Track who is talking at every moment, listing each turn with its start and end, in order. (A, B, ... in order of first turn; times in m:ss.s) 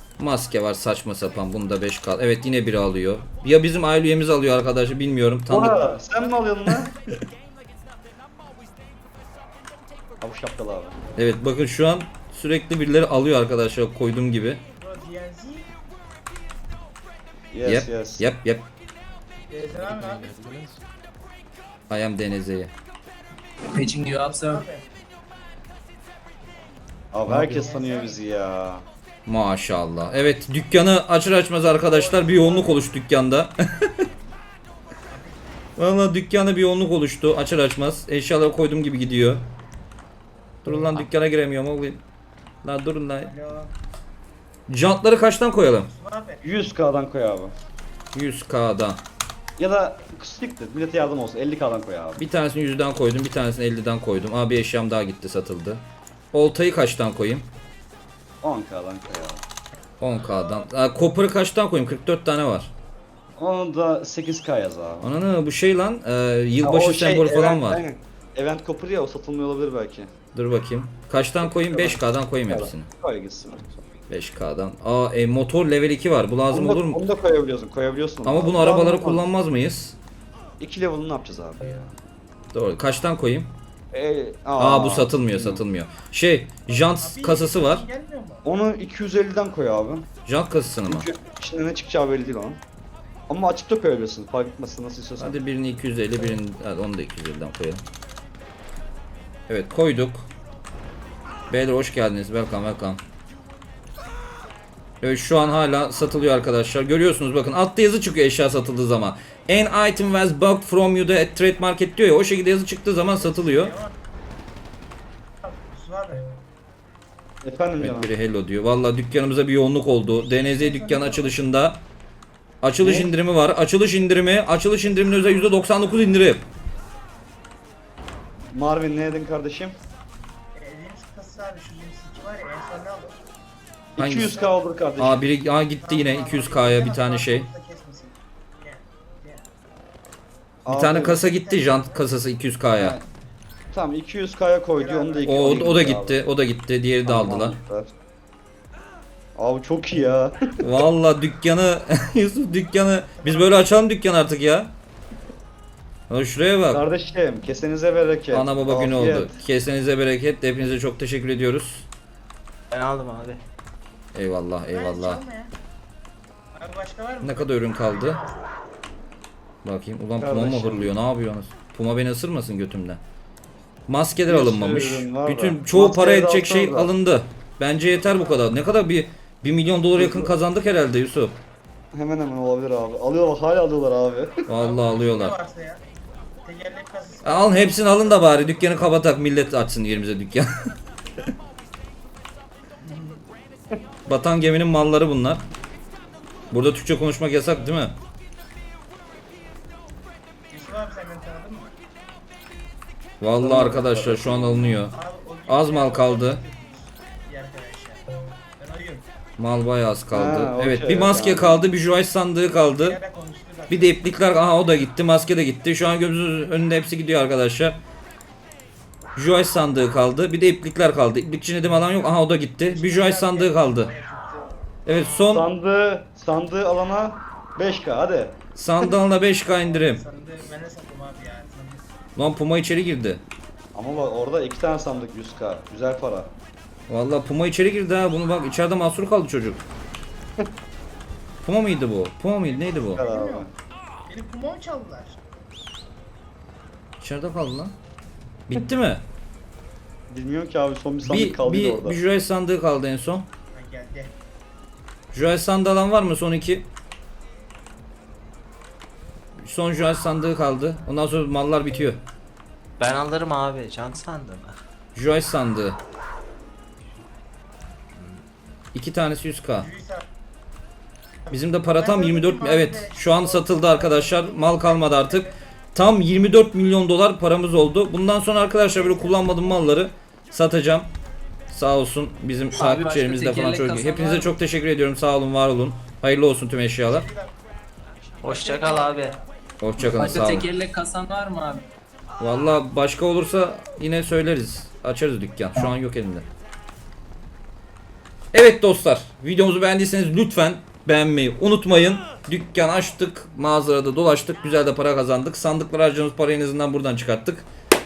0:00.2-0:06.0 A
0:05.5-0:06.9 B
0:05.6-0:06.2 C
0:10.2-0:11.0 B
0:11.2-0:14.6 A
0:14.8-0:15.8 C
0:17.5-0:18.2 B
0:17.6-0:18.6 A
0:19.5-0:20.6 C
0:21.9-0:22.7 A
0:23.7-0:24.6 D
0:24.2-0:24.9 C
0:27.1-0:28.8 B
0:27.5-0:28.2 C
0:29.2-0:33.9 A
0:31.9-0:32.8 C
0:35.1-0:35.4 C
0:35.8-0:39.4 A
0:40.6-0:42.0 A
0:42.6-0:43.3 A
0:43.2-0:43.7 C
0:44.7-0:45.9 A
0:45.9-0:46.5 C
0:46.4-0:47.5 B
0:48.1-0:49.0 A
0:49.6-0:52.2 B
0:52.2-0:57.4 A
0:58.4-0:59.4 B
1:00.0-1:02.7 A
1:03.4-1:05.1 B
1:05.0-1:07.8 A
1:06.6-1:10.1 B
1:10.3-1:12.9 A
1:11.4-1:13.8 B
1:14.1-1:17.0 A
1:16.5-1:19.3 B
1:18.2-1:20.0 A
1:20.6-1:21.9 B
1:22.5-1:23.5 A
1:23.9-1:25.6 B
1:24.6-1:27.8 A
1:26.8-1:28.4 C
1:28.4-1:30.0 B
1:30.2-1:31.1 A
1:30.9-1:32.6 B
1:33.3-1:35.4 B
1:35.2-1:37.8 A
1:39.5-1:40.2 A
1:41.5-1:43.0 A
1:45.0-1:53.7 A
1:53.2-1:53.9 C
1:55.4-1:56.4 C
1:57.4-1:58.1 B
1:57.8-2:01.8 A
2:00.4-2:01.4 C
2:02.6-2:06.4 A
2:02.8-2:03.1 B
2:04.8-2:05.6 C
2:08.5-2:09.8 B
2:10.5-2:13.2 C
2:14.0-2:15.3 B
2:14.0-2:14.4 A
2:15.0-2:17.5 A
2:15.8-2:19.4 C
2:20.6-2:21.2 B
2:20.7-2:23.0 A
2:21.2-2:22.0 C
2:22.7-2:23.0 B
2:23.7-2:26.2 B
2:24.8-2:25.8 C
2:25.2-2:27.5 A
2:27.0-2:27.9 B
2:29.4-2:30.6 B
2:30.6-2:34.7 A
2:33.2-2:33.5 C
2:36.1-2:36.8 A
2:36.7-2:39.4 B
2:38.3-2:41.9 A
2:42.7-2:43.4 E
2:44.1-2:45.2 A
2:44.7-2:45.5 C
2:46.5-2:48.4 C
2:47.2-2:48.2 A
2:49.6-2:53.0 A
2:50.2-2:50.9 B
2:53.9-3:01.4 A
2:54.2-2:56.9 B
3:00.0-3:00.3 B
3:01.9-3:04.5 B
3:04.5-3:05.4 A
3:04.6-3:05.8 C
3:06.4-3:08.4 C
3:07.2-3:10.5 A
3:12.8-3:13.2 C
3:14.1-3:15.4 A
3:16.5-3:17.9 A
3:20.5-3:21.7 C
3:23.2-3:25.0 A
3:23.4-3:24.8 B
3:24.9-3:29.0 C
3:25.5-3:26.4 A
3:29.4-3:33.0 A
3:30.1-3:31.7 B
3:32.8-3:34.1 C
3:33.7-3:37.8 A
3:39.2-3:43.9 A
3:42.6-3:44.6 C
3:44.8-3:45.5 A
3:45.3-3:48.4 B
3:48.6-3:50.0 A
3:49.6-3:51.8 C
3:52.2-3:53.2 A
3:53.7-3:56.3 B
3:56.9-3:59.6 A
4:01.4-4:03.0 A
4:02.5-4:03.5 C
4:03.0-4:03.5 B
4:04.1-4:05.2 C
4:07.0-4:07.7 A
4:08.5-4:09.0 A
4:10.1-4:12.0 B
4:11.0-4:13.3 A
4:13.5-4:14.1 C
4:15.1-4:16.6 A
4:19.4-4:22.0 A
4:22.8-4:24.5 E
4:24.9-4:25.8 A
4:28.7-4:29.7 A
4:29.6-4:30.0 C
4:31.3-4:40.9 A
4:31.7-4:35.4 C
4:38.8-4:39.5 C
4:41.5-4:47.1 A
4:42.6-4:44.3 D
4:46.9-4:47.3 C
4:48.2-4:49.2 E
4:48.2-4:49.2 C
4:49.6-4:50.5 A
4:49.8-4:50.6 E
4:50.0-4:51.6 D
4:52.2-4:56.2 A
4:58.3-5:07.5 A